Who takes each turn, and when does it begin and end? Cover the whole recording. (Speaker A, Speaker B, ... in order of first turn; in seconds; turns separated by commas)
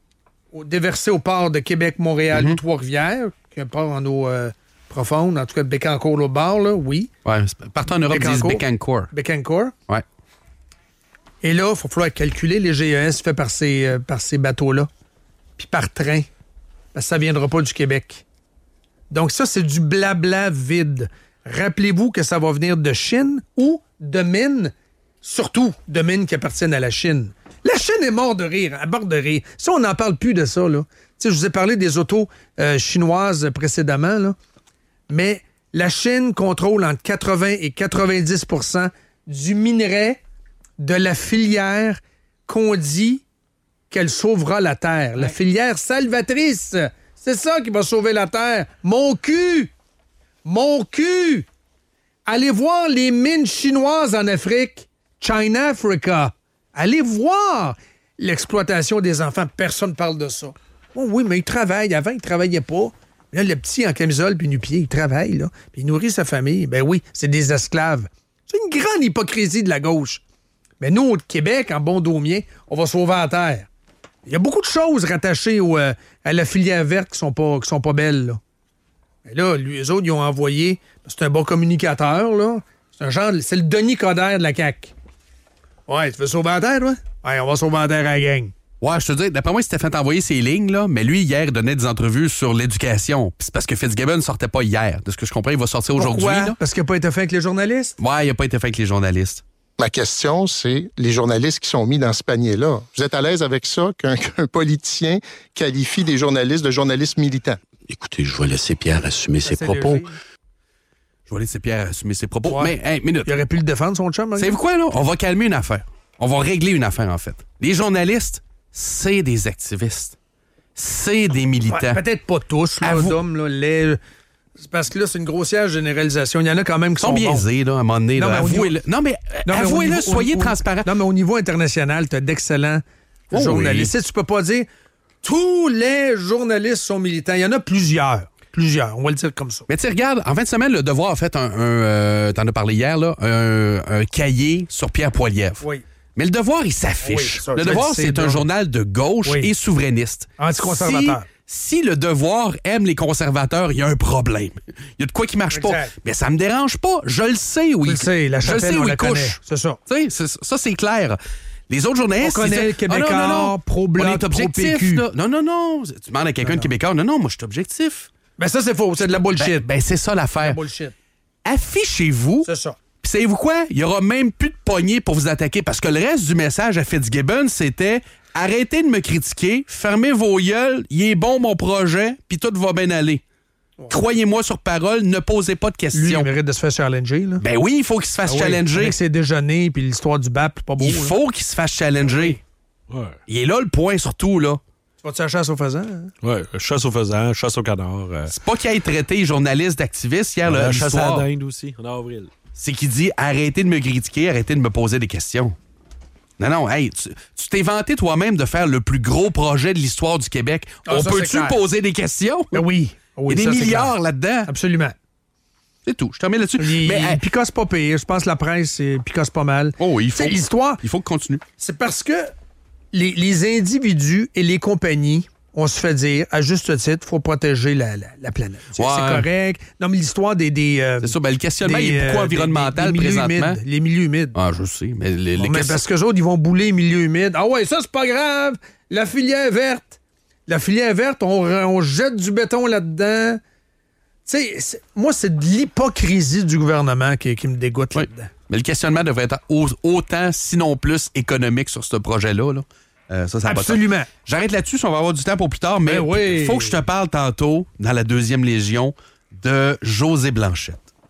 Speaker A: 0.5-7.1, Speaker B: 2.3-2.6, Speaker B: 7.2-9.1, Speaker A: 8.0-9.7, Speaker A: 11.4-14.9, Speaker A: 15.6-16.3, Speaker A: 16.9-18.2, Speaker A: 19.1-34.4, Speaker A: 35.1-40.2, Speaker A: 40.8-43.2, Speaker A: 43.9-49.7, Speaker A: 50.4-51.5, Speaker A: 52.2-70.2, Speaker A: 70.8-73.7, Speaker A: 74.2-78.4, Speaker A: 79.2-84.9, Speaker A: 85.9-88.5, Speaker B: 88.8-96.6, Speaker A: 96.0-98.0, Speaker B: 98.0-99.4, Speaker C: 99.8-107.6, Speaker D: 107.9-110.1, Speaker A: 109.4-110.2, Speaker B: 111.3-113.3, Speaker A: 112.4-114.6, Speaker B: 114.4-120.2, Speaker B: 120.8-122.0, Speaker A: 121.7-124.0, Speaker B: 122.8-123.2, Speaker A: 124.6-127.5, Speaker B: 127.0-130.9, Speaker A: 128.1-128.7, Speaker A: 129.4-134.7, Speaker B: 133.3-133.9, Speaker A: 135.2-139.7, Speaker B: 139.7-145.6, Speaker B: 146.2-168.1, Speaker A: 147.0-148.4, Speaker A: 149.2-149.5, Speaker A: 150.4-151.2, Speaker A: 155.5-155.9, Speaker A: 157.8-159.8, Speaker A: 162.2-165.0, Speaker A: 166.4-166.7, Speaker A: 168.4-169.7, Speaker B: 169.0-170.6, Speaker A: 170.4-170.9, Speaker B: 171.4-172.5, Speaker A: 172.4-172.8, Speaker B: 173.0-183.2, Speaker B: 183.9-186.3, Speaker A: 185.9-187.4, Speaker B: 187.4-189.0, Speaker A: 188.2-191.2, Speaker B: 190.8-192.4, Speaker A: 192.1-192.3, Speaker E: 192.9-193.2, Speaker B: 193.3-194.6, Speaker A: 195.0-196.1, Speaker E: 196.2-198.3, Speaker B: 198.3-201.3, Speaker E: 200.4-202.3, Speaker B: 202.6-205.5, Speaker B: 206.4-212.6, Speaker A: 210.9-211.6, Speaker A: 212.5-213.9, Speaker B: 213.3-214.5, Speaker A: 214.4-214.9, Speaker B: 215.8-217.2, Speaker A: 216.6-220.8, Speaker B: 219.8-221.4, Speaker A: 221.6-222.3, Speaker A: 222.9-234.3, Speaker B: 228.8-229.2, Speaker B: 231.0-233.6, Speaker B: 234.3-235.8, Speaker A: 235.4-243.4, Speaker A: 244.2-248.3, Speaker B: 247.9-260.8, Speaker A: 253.4-254.1, Speaker A: 255.8-256.8